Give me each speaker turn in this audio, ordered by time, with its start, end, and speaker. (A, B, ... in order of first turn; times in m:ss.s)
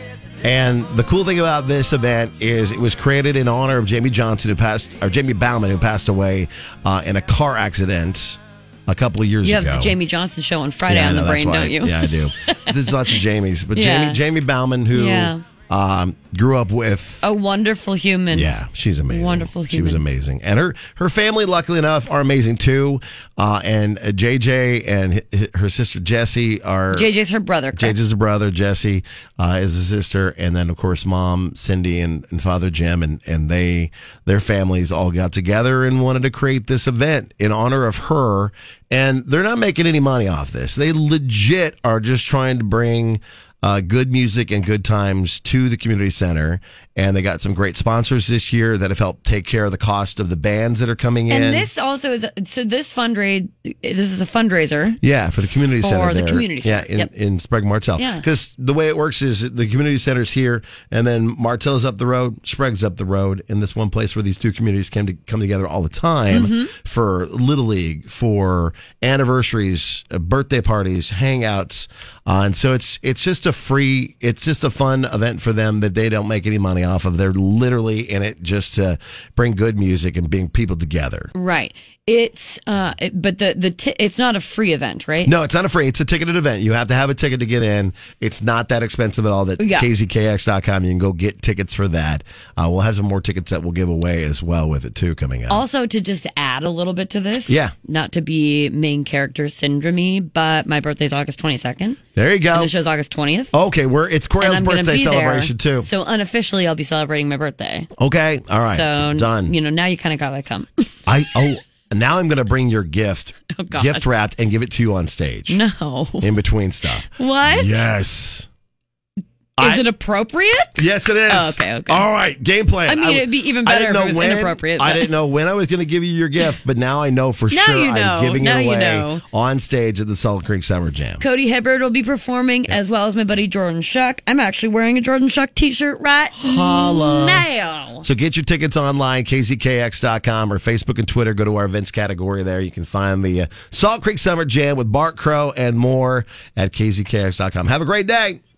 0:00.4-0:10.0 A
0:09.4-0:13.2 B
0:10.8-0:17.2 A
0:13.7-0:14.2 B
0:14.9-0:15.4 B
0:17.2-0:18.5 B
0:18.3-0:27.1 A
0:19.1-0:20.0 B
0:26.9-0:28.0 B
0:27.7-0:51.7 A
0:51.3-0:57.1 B
0:55.0-1:21.3 A
0:58.0-0:58.2 B
1:06.3-1:06.7 B
1:21.3-1:25.3 B
1:25.2-1:35.6 A
1:29.6-1:29.9 B
1:35.5-1:42.0 B
1:37.5-1:37.7 A
1:42.2-1:42.7 A
1:42.5-1:43.5 B
1:43.5-1:45.9 A
1:44.4-1:47.9 B
1:48.0-1:49.5 A
1:48.6-1:50.9 B
1:51.1-1:55.6 A
1:53.5-1:54.0 B
1:55.5-1:56.3 B
1:56.2-1:58.5 A
1:57.2-1:57.9 B
1:59.6-1:59.8 A
1:59.6-2:02.1 B
2:00.8-2:11.2 A
2:02.8-2:05.1 B
2:07.5-2:09.2 B
2:11.2-2:18.0 B
2:16.3-2:17.5 A
2:18.0-2:28.4 A